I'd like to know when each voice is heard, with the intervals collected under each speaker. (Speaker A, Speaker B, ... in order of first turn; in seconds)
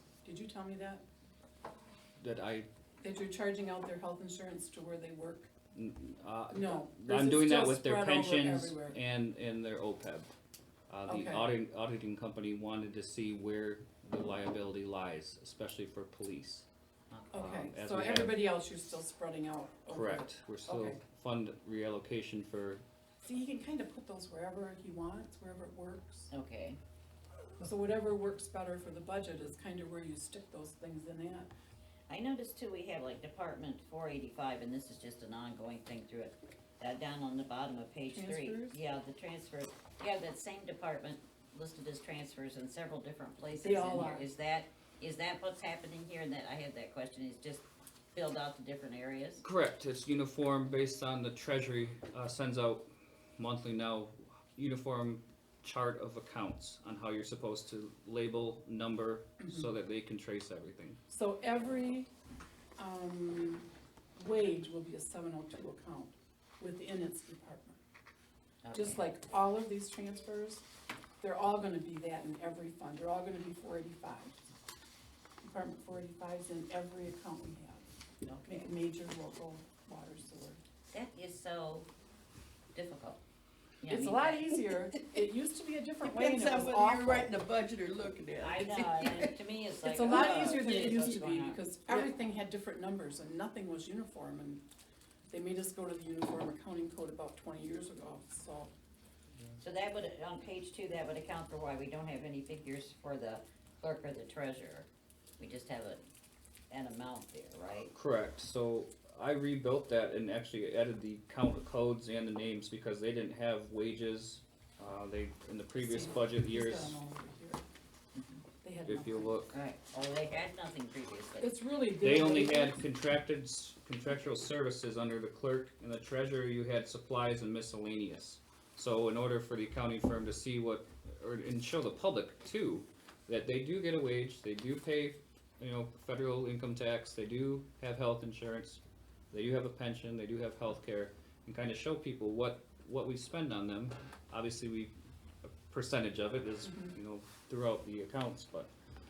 Speaker A: 0.2-1.0, 3.0-5.5, 6.5-9.0, 11.1-11.5, 17.3-21.0, 23.2-26.3, 27.6-31.5, 38.1-38.8, 43.5-44.3, 59.4-59.7, 61.1-62.1, 62.8-67.8, 68.7-70.6, 71.2-74.4, 75.4-77.8, 78.5-80.6, 83.9-87.4, 89.8-94.6, 95.3-98.7, 115.8-117.7, 118.6-119.4, 121.4-122.8, 146.6-147.0
Speaker B: 2.2-2.7, 5.7-10.3, 10.9-16.7, 17.4-18.6, 19.9-22.8, 49.4-52.9, 53.4-61.0, 107.9-117.0, 118.8-119.5, 122.0-148.7
Speaker C: 17.1-17.5, 26.3-26.8, 32.1-49.5, 68.6-69.1, 78.2-78.7, 80.9-81.9, 82.7-83.2, 83.8-84.4, 88.4-91.6, 99.6-106.0, 106.7-107.9, 118.2-118.4, 119.5-121.5
Speaker D: 86.0-89.3